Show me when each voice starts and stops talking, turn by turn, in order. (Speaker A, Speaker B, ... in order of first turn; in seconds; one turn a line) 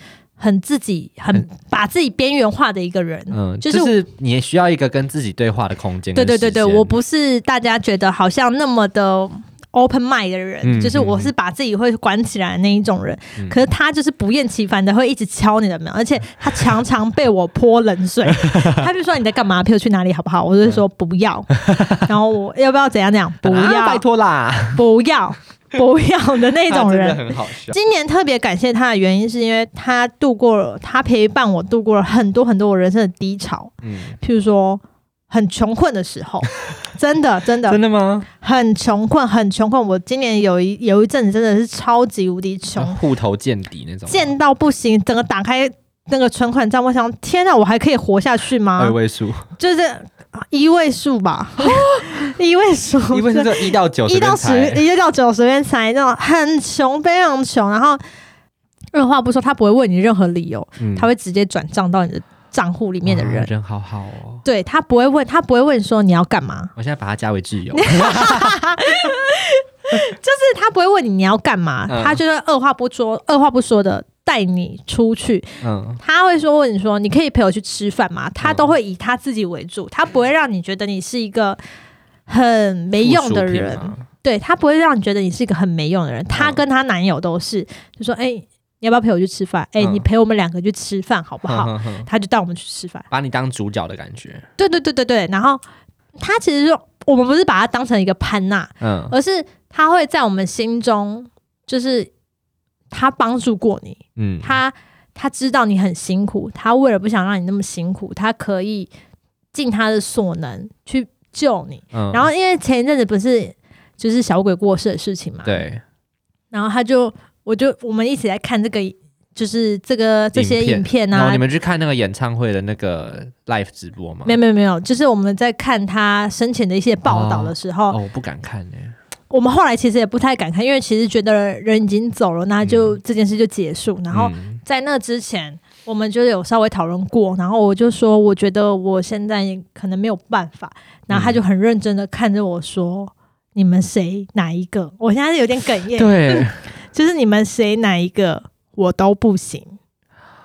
Speaker A: 0.4-3.9
Speaker B: 3.3-6.9
Speaker A: 6.2-24.0
Speaker B: 10.6-11.3
Speaker B: 18.4-18.8
Speaker B: 21.5-22.1
Speaker B: 23.4-24.8
Speaker A: 24.8-37.8
Speaker B: 26.7-27.8
Speaker B: 33.8-34.2
Speaker B: 37.7-38.3
Speaker A: 38.4-43.0
Speaker B: 42.8-44.4
Speaker A: 44.1-49.0
Speaker B: 48.8-49.5
Speaker A: 49.6-58.0
Speaker B: 51.6-52.2
Speaker B: 53.1-54.8
Speaker A: 58.9-63.5
Speaker B: 60.8-61.1
Speaker B: 63.0-64.5
Speaker A: 64.5-66.7
Speaker B: 66.8-68.6
Speaker A: 67.7-75.5
Speaker B: 71.9-72.2
Speaker B: 75.6-76.0
Speaker A: 76.0-81.6
Speaker B: 78.4-78.7
Speaker A: 82.3-93.1
Speaker B: 83.0-84.1
Speaker B: 86.3-86.6
Speaker B: 89.8-90.1
Speaker B: 91.5-92.1
Speaker B: 93.1-94.5
Speaker A: 94.6-95.6
Speaker A: 96.2-102.1
Speaker B: 98.8-99.2
Speaker A: 102.9-108.9
Speaker B: 104.2-104.6
Speaker A: 109.5-115.6
Speaker B: 111.9-112.3
Speaker B: 115.4-115.8
Speaker A: 116.5-121.4
Speaker B: 120.3-124.4
Speaker A: 124.2-128.0
Speaker B: 127.1-129.0
Speaker A: 129.3-149.8
Speaker B: 132.6-133.0
Speaker B: 134.1-134.6
Speaker B: 141.1-141.4
Speaker B: 145.9-146.6